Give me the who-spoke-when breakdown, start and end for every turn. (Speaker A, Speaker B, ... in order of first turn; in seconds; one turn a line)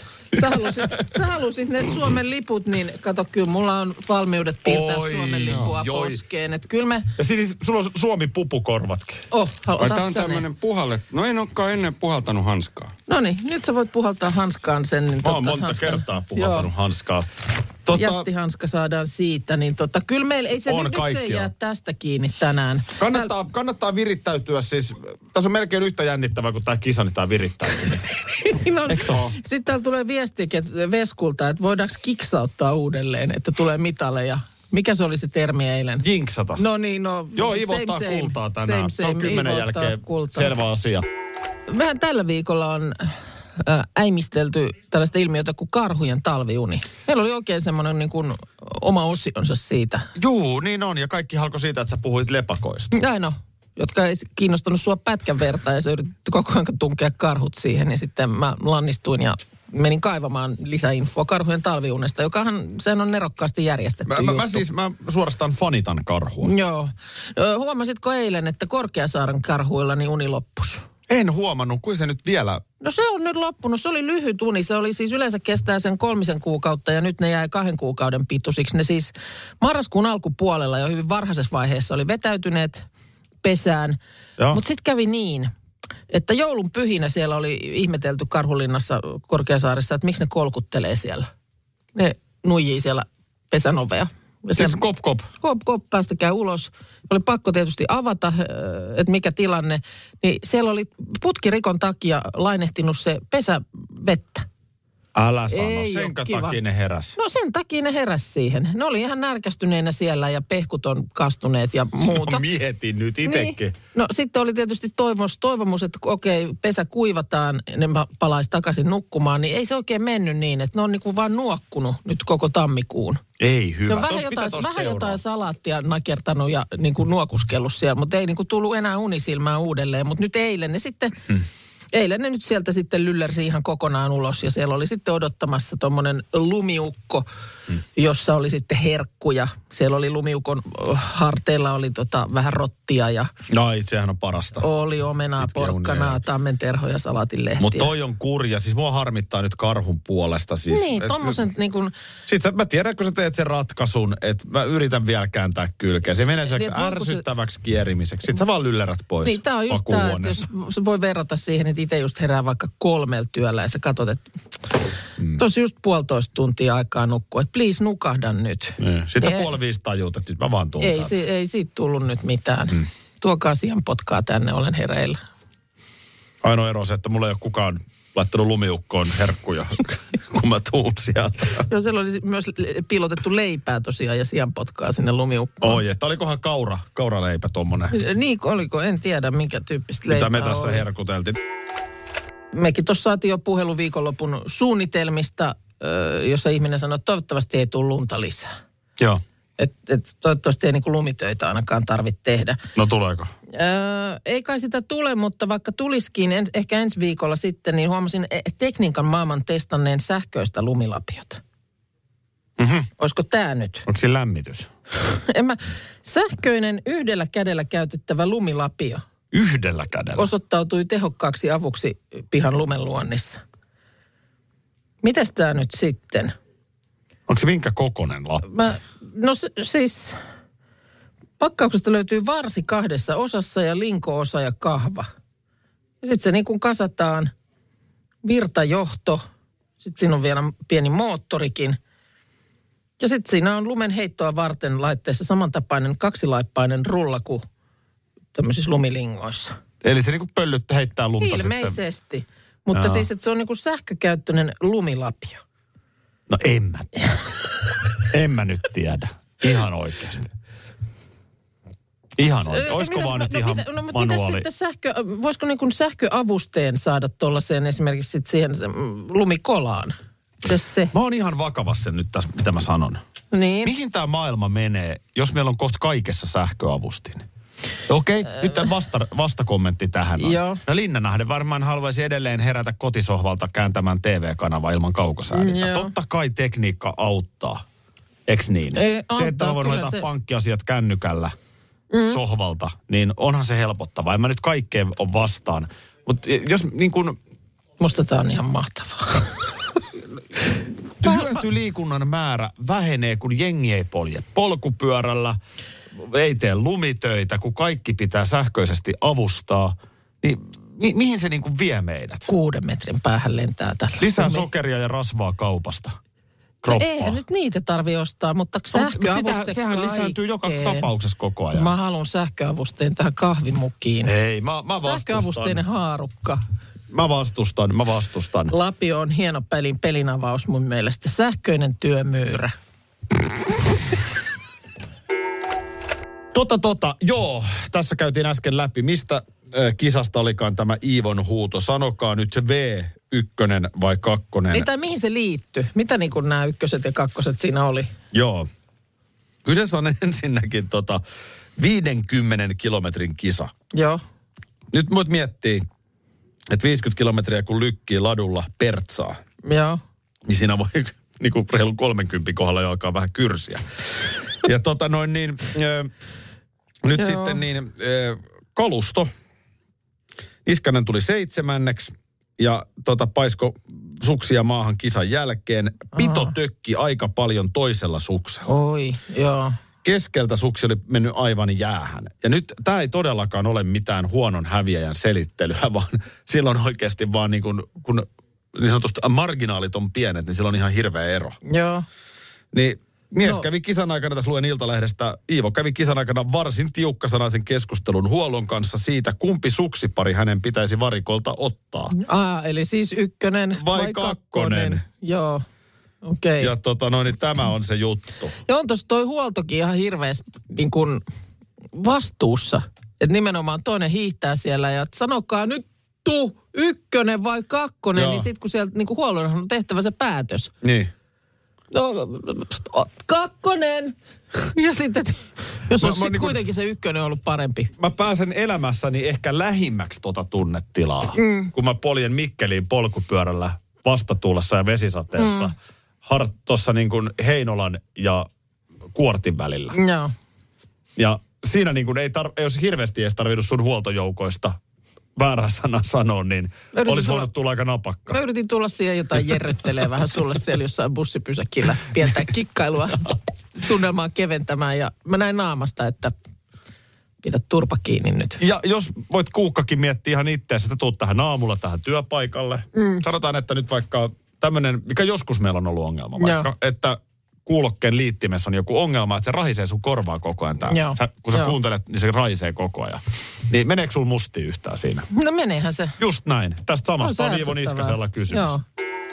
Speaker A: 0.3-7.1
Speaker B: 4.7-6.2
Speaker B: 7.2-9.2
Speaker A: 9.3-10.4
Speaker C: 9.8-12.9
Speaker A: 13.1-16.7
Speaker B: 15.2-17.3
Speaker B: 17.9-18.3
Speaker A: 17.9-23.3
Speaker B: 20.7-21.5
Speaker B: 23.0-28.1
Speaker A: 28.4-36.0
Speaker B: 28.9-29.3
Speaker B: 36.0-36.6
Speaker A: 36.6-40.5
Speaker B: 37.4-41.0
Speaker A: 41.7-50.1
Speaker B: 50.2-52.9
Speaker A: 52.9-64.7
Speaker B: 64.1-66.5
Speaker A: 66.4-70.9
Speaker B: 71.1-72.6
Speaker A: 72.8-82.9
Speaker A: 83.4-84.0
Speaker A: 84.5-85.5
Speaker A: 86.1-91.3
Speaker A: 92.0-94.8
Speaker B: 94.6-95.3
Speaker A: 95.4-104.5
Speaker B: 105.2-107.2
Speaker A: 105.5-106.6
Speaker A: 107.2-112.4
Speaker B: 112.0-113.8
Speaker A: 113.2-123.2
Speaker B: 123.4-125.2
Speaker A: 123.9-131.3
Speaker A: 131.9-137.3
Speaker A: 137.9-143.3
Speaker B: 143.5-144.7
Speaker A: 144.6-147.9
Speaker B: 145.4-146.2
Speaker B: 147.6-151.4
Speaker A: 150.7-151.9
Speaker B: 152.3-160.4
Speaker A: 156.4-157.2
Speaker A: 159.2-164.3
Speaker A: 165.3-169.5
Speaker B: 168.8-171.2
Speaker A: 170.8-175.2
Speaker B: 176.4-181.7
Speaker A: 181.7-185.8
Speaker B: 185.6-188.0
Speaker A: 187.9-190.8
Speaker B: 190.1-191.4
Speaker A: 192.5-198.5
Speaker A: 199.6-202.6
Speaker B: 202.8-203.3
Speaker A: 203.5-211.4
Speaker B: 212.6-212.9
Speaker A: 213.0-213.9
Speaker B: 213.9-214.7
Speaker A: 215.1-219.0
Speaker B: 219.3-220.3
Speaker A: 220.2-223.4
Speaker A: 225.0-226.3
Speaker B: 227.3-228.4
Speaker A: 228.4-230.2
Speaker A: 231.4-235.1
Speaker A: 236.0-237.3
Speaker A: 238.2-239.2
Speaker A: 239.8-241.8
Speaker A: 243.0-247.4
Speaker A: 248.3-249.6
Speaker B: 249.8-251.8
Speaker A: 251.2-255.4
Speaker B: 252.7-253.1
Speaker B: 256.3-257.1
Speaker B: 258.1-260.3
Speaker B: 262.2-264.5
Speaker A: 262.4-270.9
Speaker B: 270.9-273.0
Speaker A: 273.3-273.7
Speaker B: 273.6-277.3
Speaker B: 277.9-287.6
Speaker A: 280.2-280.6
Speaker A: 285.3-285.9
Speaker B: 288.3-291.4
Speaker A: 288.7-290.1
Speaker A: 291.9-292.2
Speaker B: 292.1-297.2
Speaker A: 297.8-299.5
Speaker B: 301.0-305.4
Speaker A: 301.0-301.4
Speaker B: 305.9-312.3
Speaker A: 312.3-314.5
Speaker B: 314.0-316.0
Speaker B: 316.6-317.2
Speaker A: 316.7-320.9
Speaker B: 318.7-321.7
Speaker A: 321.5-324.1
Speaker B: 324.1-325.6
Speaker A: 324.8-326.4
Speaker B: 326.9-328.5
Speaker A: 328.5-332.5
Speaker B: 336.3-344.7
Speaker A: 344.5-347.9
Speaker B: 348.1-348.5
Speaker B: 349.4-351.0
Speaker B: 351.6-353.5
Speaker A: 353.7-354.0
Speaker B: 354.7-355.6
Speaker B: 356.5-359.2
Speaker A: 359.4-359.8
Speaker B: 360.3-363.6
Speaker B: 364.4-365.9
Speaker B: 366.8-369.1
Speaker A: 367.0-367.4
Speaker B: 370.4-378.5
Speaker A: 375.9-376.3
Speaker A: 378.5-379.6
Speaker B: 379.8-391.4
Speaker A: 391.5-391.9
Speaker B: 392.5-401.9
Speaker A: 401.9-405.4
Speaker B: 403.5-404.8
Speaker A: 406.0-406.5
Speaker B: 406.4-408.4
Speaker A: 408.5-411.0
Speaker A: 411.7-420.5
Speaker B: 417.9-418.3
Speaker B: 420.6-420.9
Speaker A: 421.7-427.7
Speaker B: 425.8-426.4
Speaker B: 427.8-438.3
Speaker A: 431.2-431.5
Speaker A: 435.2-435.5
Speaker B: 438.9-439.8
Speaker A: 439.7-440.1
Speaker B: 441.0-444.6
Speaker B: 445.2-448.2
Speaker A: 446.7-447.3
Speaker A: 448.1-456.1
Speaker A: 457.2-458.4
Speaker B: 458.4-475.1
Speaker A: 462.8-463.0
Speaker A: 466.2-466.5
Speaker A: 470.7-471.5
Speaker A: 475.1-476.0
Speaker B: 476.0-478.6
Speaker A: 477.0-478.6